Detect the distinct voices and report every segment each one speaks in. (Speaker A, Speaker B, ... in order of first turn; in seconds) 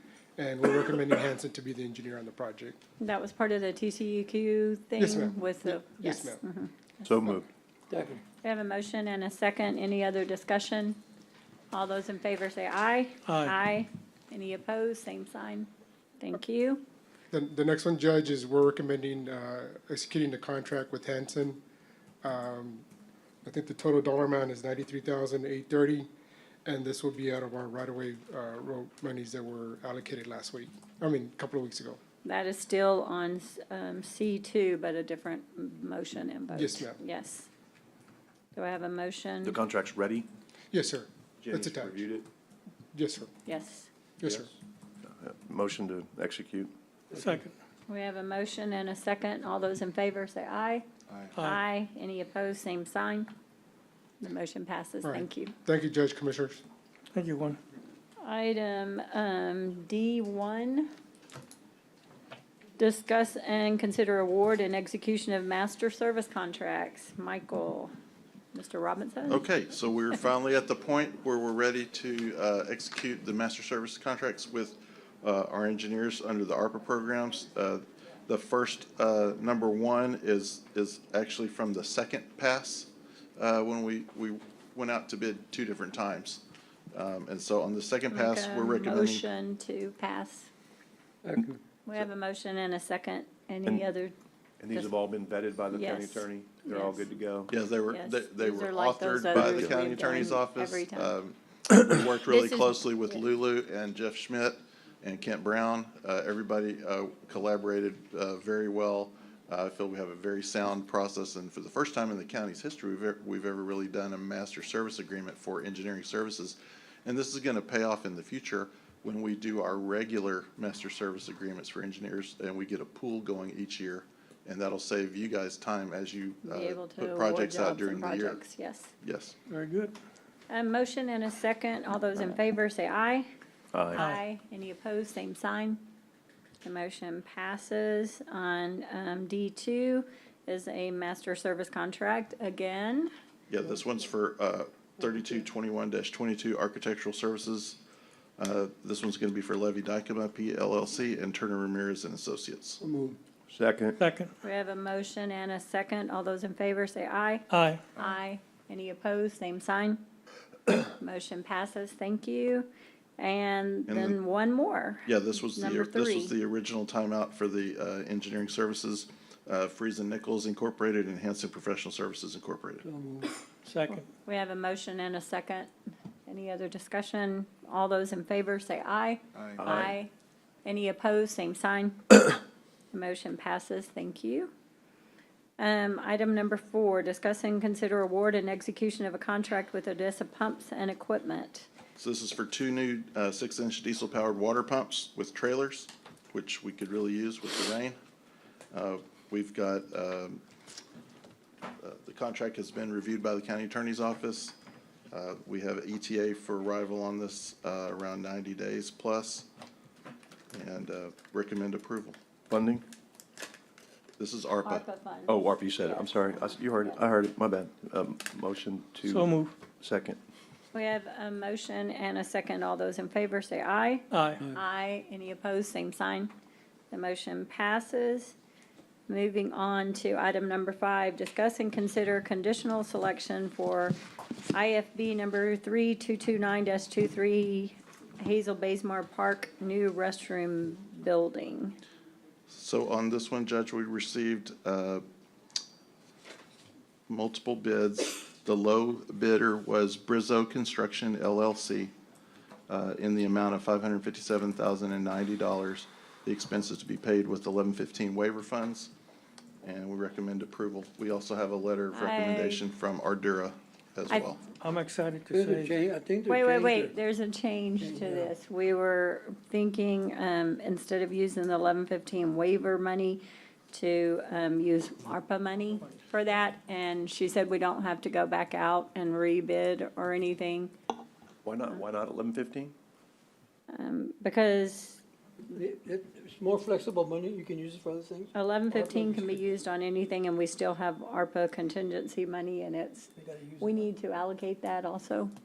Speaker A: 0.4-2.8, 5.0-6.4, 17.3-21.6, 22.2-22.9, 23.4-26.1, 26.7-32.0, 36.5-37.0, 40.7-42.1, 42.9-43.3, 44.2-44.5, 55.0-56.6
Speaker B: 3.0-7.4, 8.4-11.0, 11.7-15.7, 16.2-16.8, 32.2-37.5, 38.5-39.6, 43.5-43.9, 47.9-50.9, 51.4-53.3, 54.2-55.5, 58.2-60.9, 62.8-67.9, 68.5-69.4, 88.1-90.5, 91.8-94.2, 95.7-97.1, 97.9-101.2, 102.3-102.6, 126.5-128.9, 130.5-133.3, 133.9-135.8, 136.6-143.1, 154.4-160.0, 160.7-166.3, 174.3-175.7, 176.3-180.1, 180.7-182.4, 182.9-184.5, 185.6-191.7, 214.6-217.0, 220.7-226.3, 226.9-228.3, 229.1-234.0, 234.5-241.8, 261.9-262.6, 266.3-280.7, 283.7-285.0, 288.3-295.3
Speaker C: 7.0-7.5, 39.4-40.3, 41.4-42.3, 45.1-46.7, 94.6-97.5, 99.4-99.7, 133.7-134.0, 153.5-154.0, 179.6-179.9, 212.5-212.8, 215.3-220.2, 281.4-282.7
Speaker D: 7.9-8.2, 91.2-91.6, 152.8-153.2, 172.8-173.3, 265.3-266.9, 267.8-268.3, 285.5-289.5, 293.2-293.9
Speaker E: 13.3-13.6, 47.1-47.5, 51.4-51.6, 57.1-57.6, 129.5-129.9, 134.0-134.2, 154.0-154.3, 157.5-157.8, 173.7-174.1, 219.0-219.6, 224.1-224.5, 264.6-265.8
Speaker F: 69.3-86.4, 86.9-89.3, 97.5-128.4, 129.0-129.3, 143.5-147.8, 148.4-152.8, 163.9-164.2, 165.1-172.8, 192.0-198.0, 198.7-200.4, 201.8-204.6, 205.1-209.5, 210.5-212.2, 214.2-214.8, 242.5-245.0, 247.1-251.9, 252.7-258.9, 259.6-264.4